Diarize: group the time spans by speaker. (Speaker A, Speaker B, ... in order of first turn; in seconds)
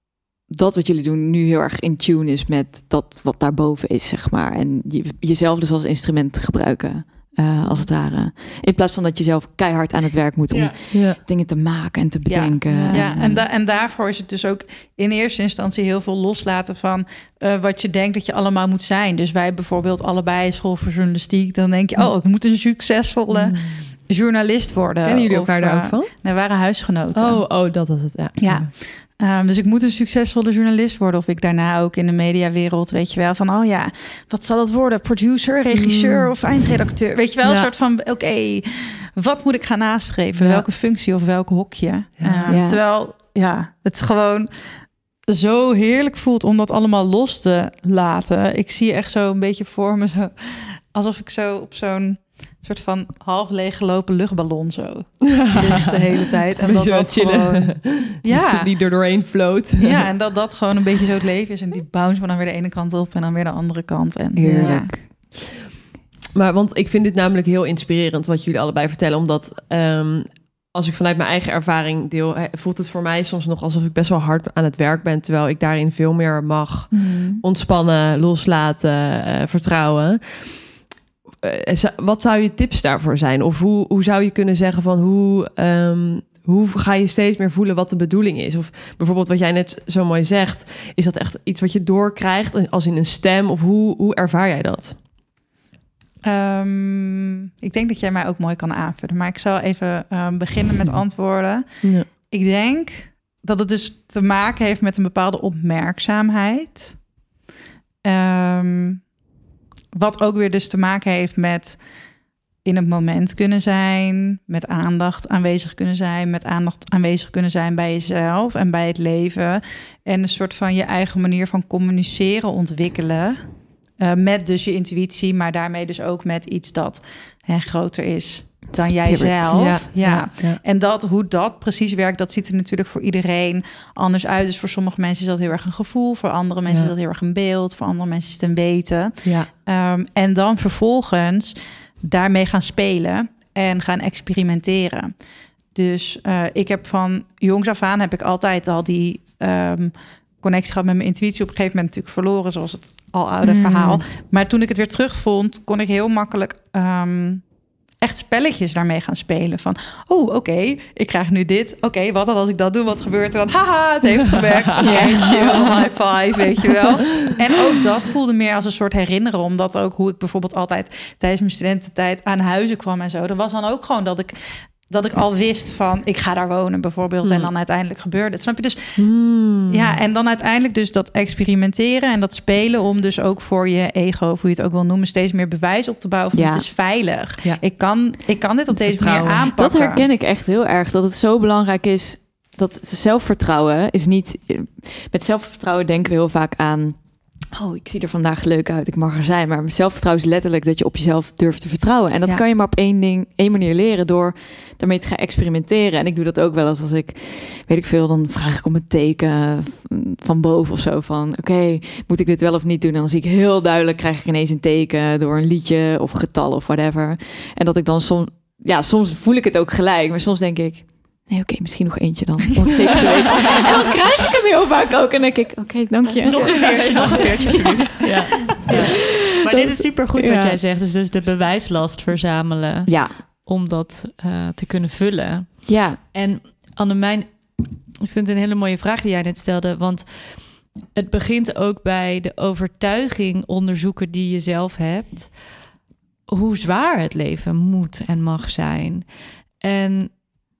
Speaker A: 0.5-13.4, 42.5-42.8, 64.3-65.1, 76.9-77.4, 128.7-129.7, 153.4-154.0, 164.8-165.9, 186.3-186.6, 189.2-227.6, 229.5-230.6, 232.9-233.1, 235.7-236.0
Speaker B: 10.5-10.8, 226.2-245.6, 246.3-249.1, 249.6-250.2
Speaker C: 10.9-11.2, 12.7-13.3, 23.3-23.9, 25.0-26.1, 27.1-28.7, 35.7-36.4, 37.4-37.7, 40.3-40.6, 42.2-42.6, 55.3-60.1, 64.5-64.8, 66.3-80.8, 81.4-95.0, 101.8-102.1, 129.5-130.6, 177.2-177.5, 179.0-180.0, 188.9-189.2, 226.6-227.1, 228.0-228.7
Speaker D: 12.2-27.5, 28.4-44.5, 45.3-58.7, 59.8-64.9, 96.2-107.0, 108.0-109.0, 109.9-111.8, 112.6-145.1, 145.7-157.4, 158.0-179.1, 179.7-190.1, 228.7-228.9